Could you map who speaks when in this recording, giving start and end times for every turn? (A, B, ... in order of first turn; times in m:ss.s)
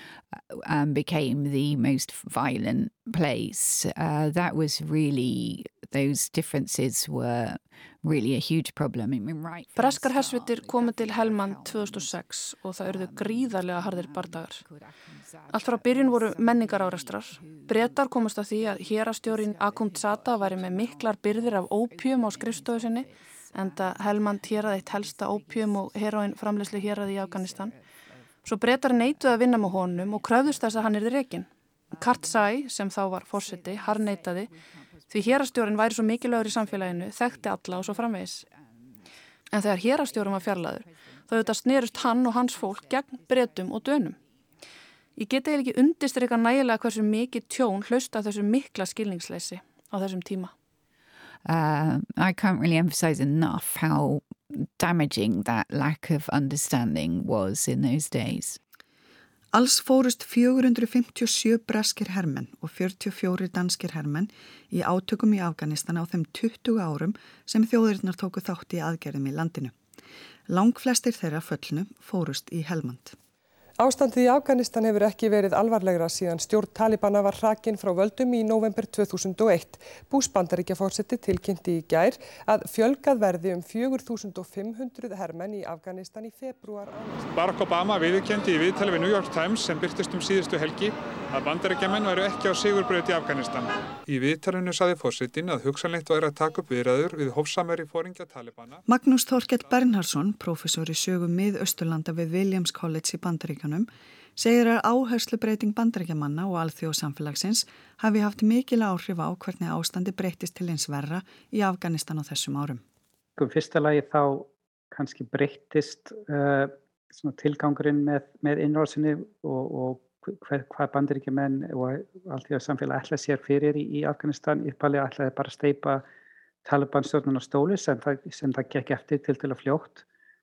0:00.3-0:12.2 A
0:09.8-0:14.6 B
0:12.8-0:18.0 A
0:15.5-0:27.7 B
0:18.6-0:31.0 A
0:28.4-0:34.5 B
0:31.9-0:32.6 A
0:33.3-0:39.0 A
0:35.1-0:38.4 B
0:39.5-0:44.2 B
0:39.9-0:44.2 A
0:45.2-0:50.5 B
0:51.5-0:58.6 A
0:59.5-1:09.7 C
1:10.5-1:13.2 C
1:13.8-1:27.3 D
1:27.3-1:38.8 E
1:38.9-1:52.8 C
1:53.4-2:06.0 F
2:06.6-2:10.0 F